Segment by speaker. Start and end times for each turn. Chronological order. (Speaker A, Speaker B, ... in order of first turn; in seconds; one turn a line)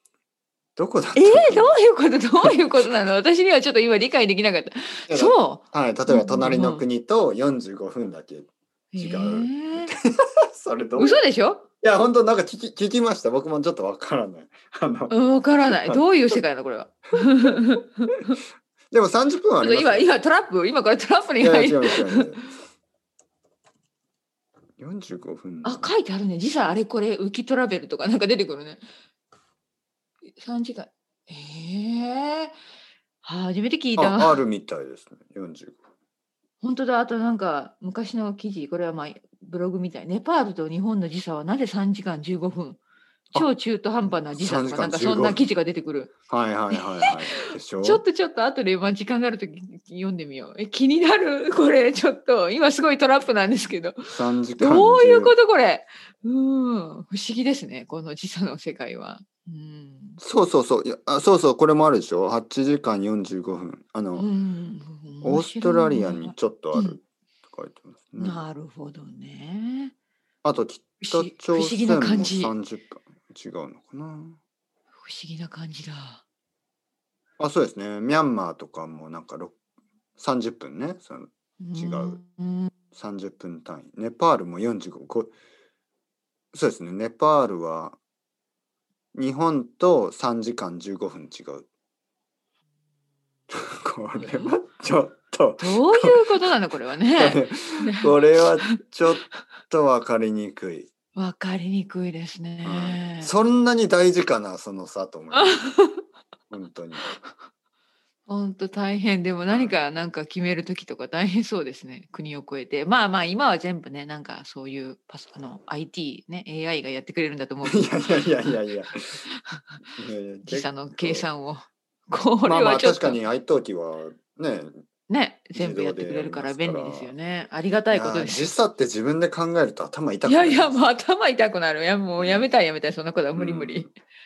Speaker A: 0.8-1.8
Speaker B: 1.1-6.8
Speaker A: 5.1-11.2
Speaker B: 8.9-9.9
Speaker B: 11.0-11.7
Speaker A: 11.8-16.4
Speaker B: 15.1-18.4
Speaker A: 17.2-17.6
Speaker A: 18.9-20.1
Speaker B: 19.6-22.3
Speaker A: 21.4-22.5
Speaker A: 24.8-25.9
Speaker B: 25.6-28.8
Speaker B: 30.3-32.5
Speaker B: 33.2-34.4
Speaker A: 34.0-35.8
Speaker B: 36.6-42.8
Speaker B: 43.3-46.1
Speaker A: 44.3-45.4
Speaker A: 46.3-48.0
Speaker B: 46.7-60.2
Speaker A: 54.0-55.4
Speaker A: 60.2-64.3
Speaker B: 64.2-67.0
Speaker A: 65.2-68.4
Speaker B: 68.2-69.9
Speaker A: 70.4-74.4
Speaker B: 71.0-72.5
Speaker B: 75.0-76.2
Speaker A: 77.4-79.6
Speaker A: 80.2-82.2
Speaker B: 81.6-82.7
Speaker A: 82.9-85.3
Speaker A: 86.5-88.0
Speaker A: 89.1-91.7
Speaker A: 93.5-96.5
Speaker B: 94.1-94.5
Speaker B: 95.6-98.1
Speaker A: 97.1-100.9
Speaker B: 98.7-99.2
Speaker B: 101.2-103.3
Speaker A: 102.6-105.7
Speaker B: 105.3-106.0
Speaker A: 106.5-107.2
Speaker B: 107.0-107.3
Speaker B: 108.3-118.6
Speaker A: 109.5-109.7
Speaker A: 117.6-119.2
Speaker B: 119.1-119.8
Speaker A: 120.0-121.3
Speaker B: 120.5-123.2
Speaker A: 122.4-124.8
Speaker B: 125.1-128.5
Speaker A: 125.5-127.1
Speaker A: 127.9-130.8
Speaker B: 130.2-133.9
Speaker A: 132.2-132.4
Speaker A: 133.3-133.9